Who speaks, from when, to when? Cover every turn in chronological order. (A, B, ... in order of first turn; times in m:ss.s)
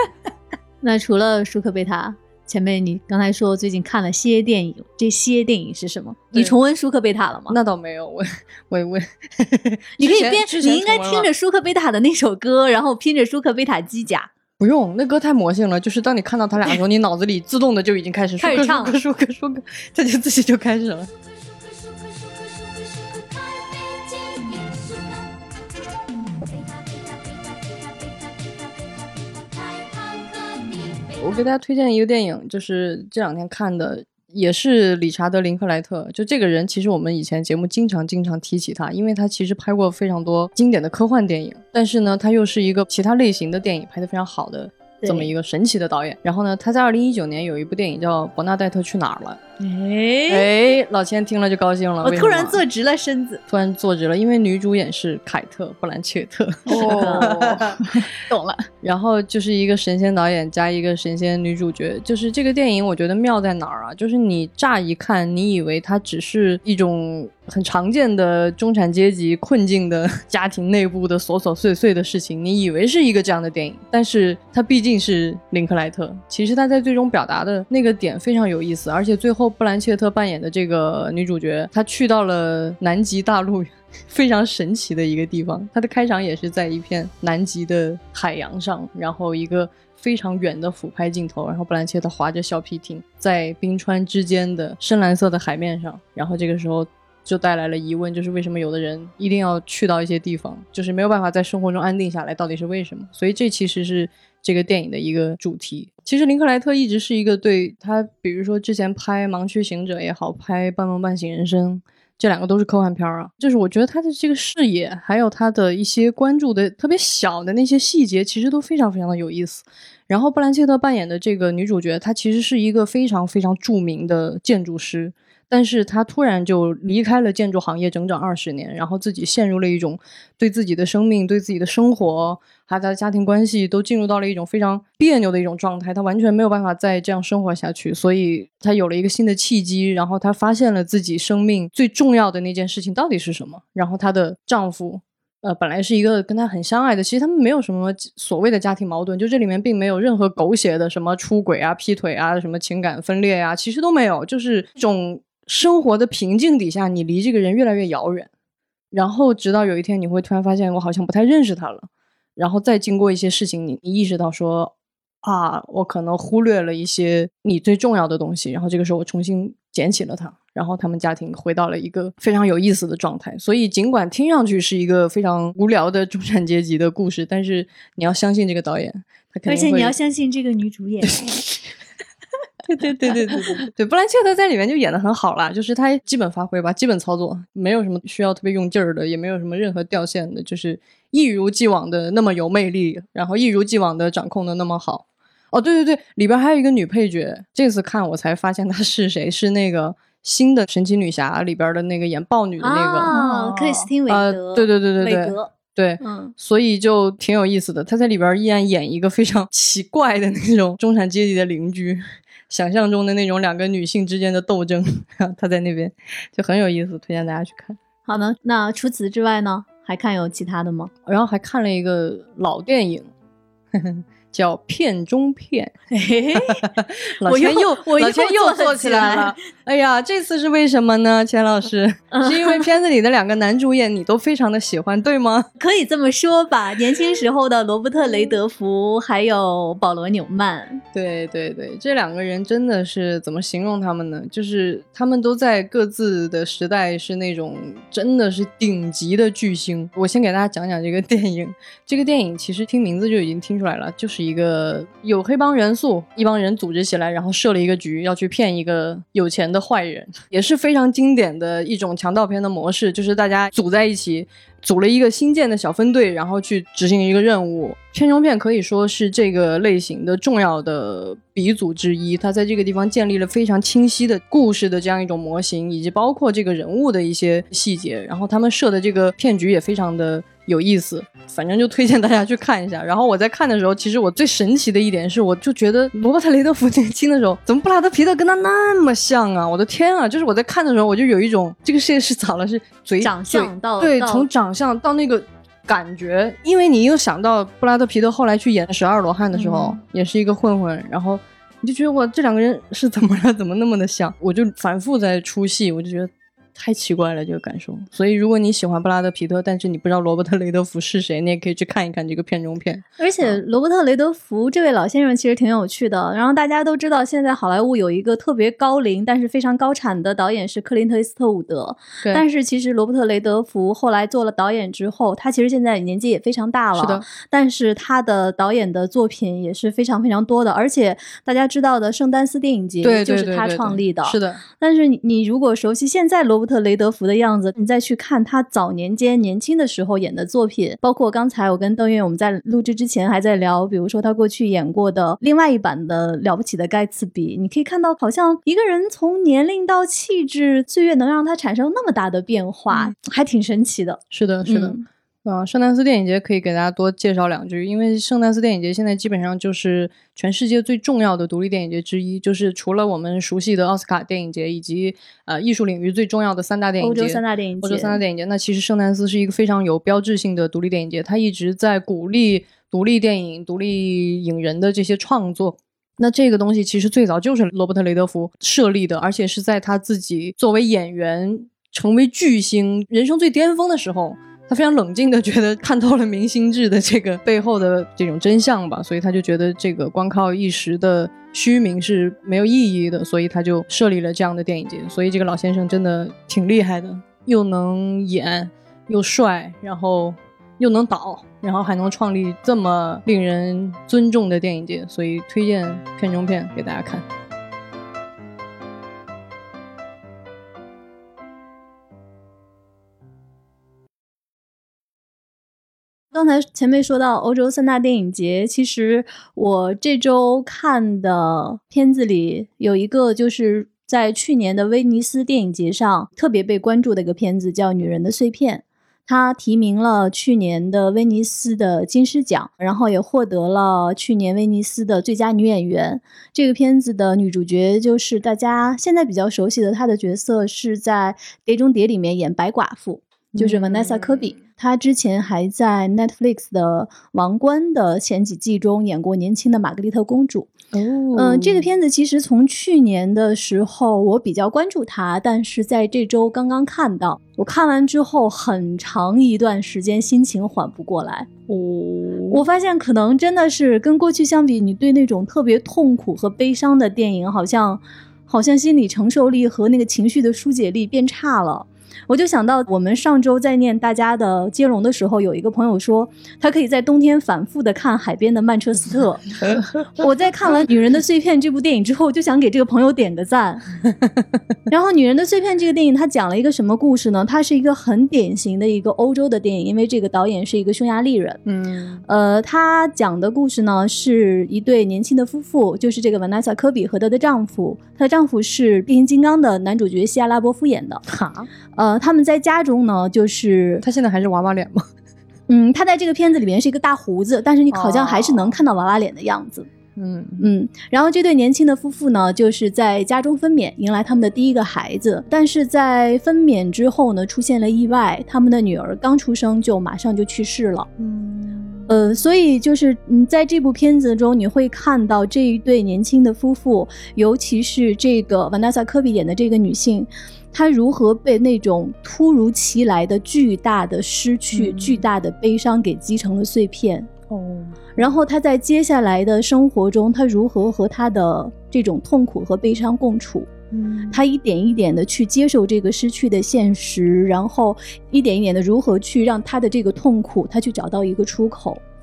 0:00.8-0:07.6 A
0:07.5-0:11.3 B
0:10.0-0:14.3 A
0:14.6-0:21.1 B
0:18.4-0:19.0 A
0:31.0-0:49.4 B
0:45.0-0:45.3 A
0:49.6-0:50.5 A
0:50.3-0:52.6 B
0:52.0-0:53.4 A
0:53.5-0:57.8 B
0:56.7-0:58.7 C
0:56.7-0:57.4 A
0:58.8-2:38.3 B
2:38.9-2:44.7 B
2:45.2-2:59.9 B
2:59.5-3:01.4 A
3:02.6-3:23.1 B
3:22.6-3:26.3 A
3:23.1-3:23.9 C
3:24.1-3:37.8 B
3:38.1-3:40.9 A
3:41.1-3:43.1 B
3:43.7-3:45.8 B
3:45.9-3:46.7 A
3:46.5-3:55.5 B
3:47.2-3:49.4 A
3:52.1-3:52.7 A
3:55.6-4:00.8 A
4:00.9-5:13.4 B
4:53.0-4:54.3 A
4:59.4-4:59.7 C
5:13.0-5:54.8 A
5:26.8-5:27.1 B
5:32.8-5:34.4 B
5:54.1-6:47.1 B
6:06.8-6:08.0 A
6:56.1-7:30.5 A
7:23.3-7:24.4 B
7:30.7-7:31.7 B
7:31.1-7:41.3 A
7:41.5-7:42.4 B
7:42.3-7:59.3 A
8:00.0-8:03.6 A
8:04.7-8:11.4 A
8:11.5-8:12.0 B
8:12.1-8:21.0 A
8:21.1-8:21.5 B
8:21.7-8:23.8 A
8:23.8-8:24.9 B
8:25.5-8:29.7 A
8:27.7-8:28.6 B
8:30.0-8:30.5 B
8:30.4-8:40.9 A
8:41.0-8:42.1 B
8:41.9-8:57.1 A
8:54.5-8:55.0 B
8:57.3-8:58.2 B
8:58.0-9:03.5 A
9:03.7-9:04.2 B
9:04.1-9:11.8 A